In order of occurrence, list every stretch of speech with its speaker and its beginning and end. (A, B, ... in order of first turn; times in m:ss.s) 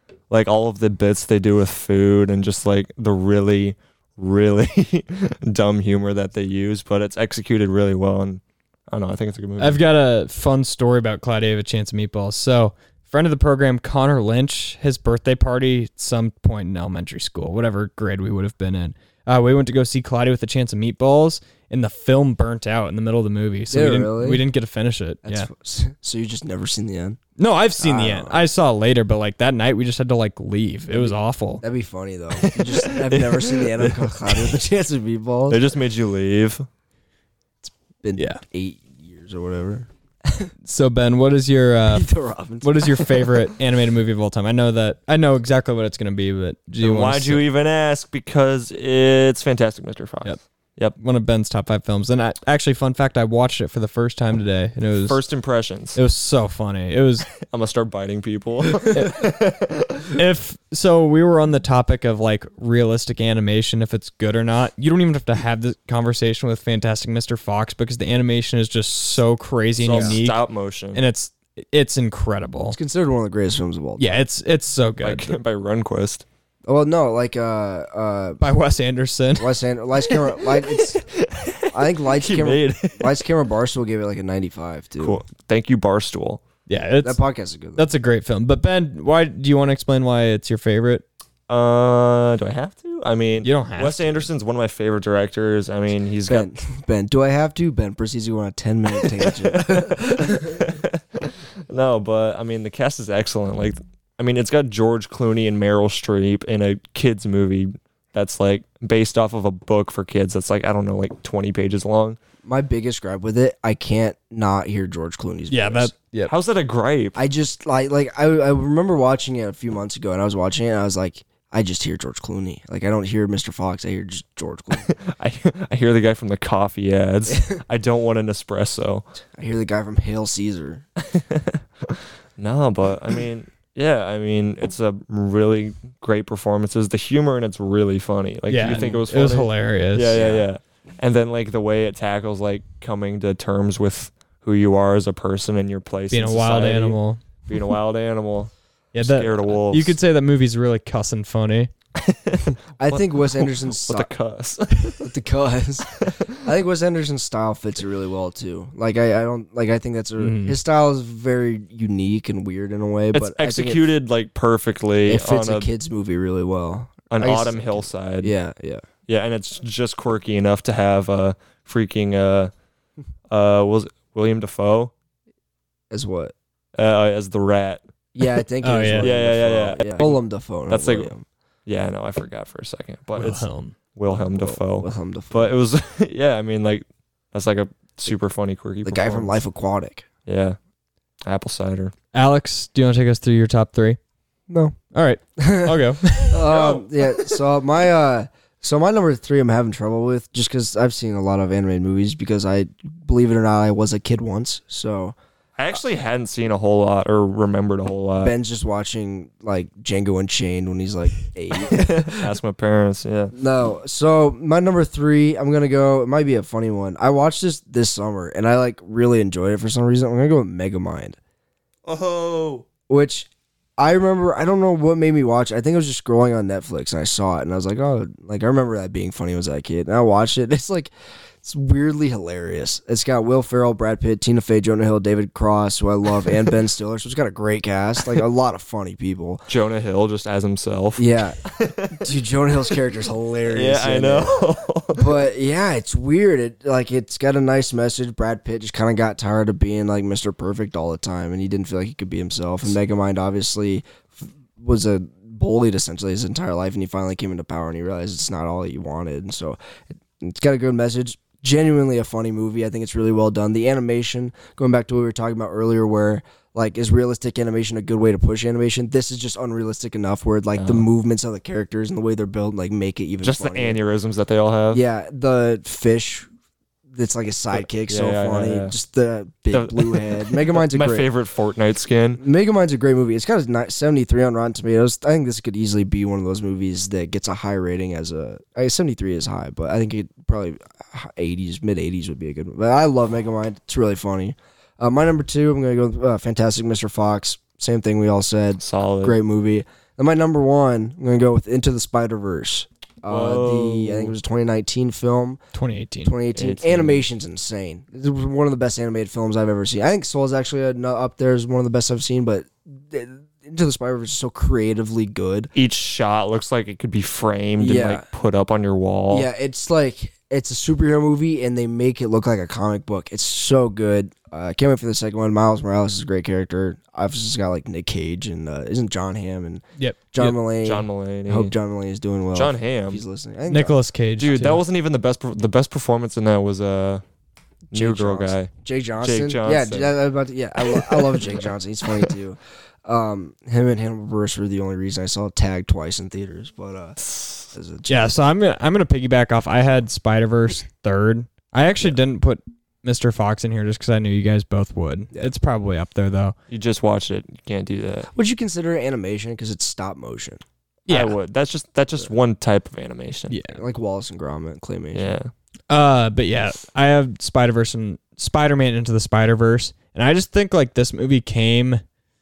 0:00.3-0:09.8 A
0:09.6-0:25.5 B
0:23.7-0:24.4 C
0:25.2-0:27.2 C
0:27.4-0:31.6 B
0:27.8-0:28.4 C
0:30.9-0:35.6 C
0:32.4-0:34.5 A
0:35.5-0:36.7 A
0:37.6-0:40.5 C
0:38.2-0:38.4 B
0:40.6-0:42.1 B
0:41.9-0:43.3 C
0:42.6-0:47.4 B
0:46.8-0:51.0 A
0:51.0-0:55.2 B
0:55.0-0:56.0 A
0:56.0-0:57.3 B
0:57.4-1:00.2 A
1:00.1-1:10.4 B
1:09.8-1:11.0 A
1:10.9-1:12.8 B
1:12.7-1:14.0 C
1:14.0-1:15.4 B
1:15.0-1:16.2 A
1:16.7-1:18.4 C
1:18.4-1:19.5 B
1:19.4-1:21.0 C
1:20.5-1:23.1 A
1:21.7-1:25.2 C
1:25.0-1:26.4 A
1:26.7-1:27.2 B
1:27.0-1:27.8 C
1:27.8-1:31.0 B
1:31.5-1:36.5 A
1:33.4-1:34.3 B
1:36.3-1:40.6 C
1:39.0-1:52.2 A
1:52.4-1:55.9 C
1:55.5-1:56.3 B
1:56.3-1:57.2 A
1:57.2-2:04.9 C
2:04.9-2:09.1 A
2:07.3-2:07.6 C
2:09.2-2:10.8 C
2:11.0-2:30.0 A
2:18.5-2:20.2 B
2:18.7-2:19.0 C
2:20.1-2:20.5 C
2:26.1-2:27.2 B
2:28.9-2:31.7 B
2:32.0-2:35.1 A
2:32.8-2:34.1 C
2:35.0-2:43.9 C
2:36.0-2:36.4 A
2:40.2-2:40.6 B
2:43.1-2:45.7 A
2:45.1-2:48.8 C
2:47.1-2:48.3 A
2:49.1-2:52.5 A
2:53.3-2:54.9 A
2:55.9-2:56.3 C
2:56.8-2:57.8 A
2:58.2-3:01.2 C
2:58.6-2:59.1 B
2:59.0-3:01.1 A
3:01.7-3:09.4 A
3:03.2-3:03.8 B
3:04.3-3:05.5 C
3:08.8-3:10.1 C
3:10.3-3:10.6 A
3:11.3-3:11.9 A
3:12.1-3:14.0 B
3:14.5-3:14.8 C
3:14.9-3:16.5 B
3:15.4-3:25.2 C
3:16.5-3:16.9 A
3:25.6-3:28.3 A
3:28.2-3:32.3 C
3:31.7-3:33.3 A
3:33.3-3:41.2 C
3:41.8-3:42.7 A
3:42.9-3:59.4 C
3:59.5-4:02.1 A
4:01.0-4:01.4 C
4:01.9-4:04.4 C
4:03.5-4:05.2 A
4:04.9-4:19.6 C
4:20.2-4:33.8 C
4:30.6-4:30.8 A
4:33.2-4:34.8 A
4:34.7-4:36.3 C
4:36.9-4:41.1 C
4:37.8-4:38.7 A
4:39.5-4:42.2 A
4:42.2-5:05.4 C
4:58.6-4:59.2 A
5:03.1-5:04.1 A
5:05.5-5:06.2 B
5:06.0-5:15.5 C
5:06.4-5:07.0 A
5:15.6-5:19.3 A
5:17.6-5:18.0 C
5:19.1-5:33.8 C
5:29.8-5:30.1 B
5:30.2-5:31.5 A
5:32.3-5:33.0 A
5:33.5-5:34.6 B
5:34.2-5:37.0 A
5:37.7-5:47.0 C
5:37.7-5:39.9 A
5:47.0-5:47.5 A
5:47.5-5:48.1 C
5:47.9-5:56.4 B
5:56.5-5:58.1 A
5:58.2-6:00.4 C
6:00.9-6:01.2 B
6:00.9-6:03.4 A
6:03.3-6:03.6 B
6:03.5-6:05.1 C
6:04.9-6:05.3 A
6:05.7-6:11.8 B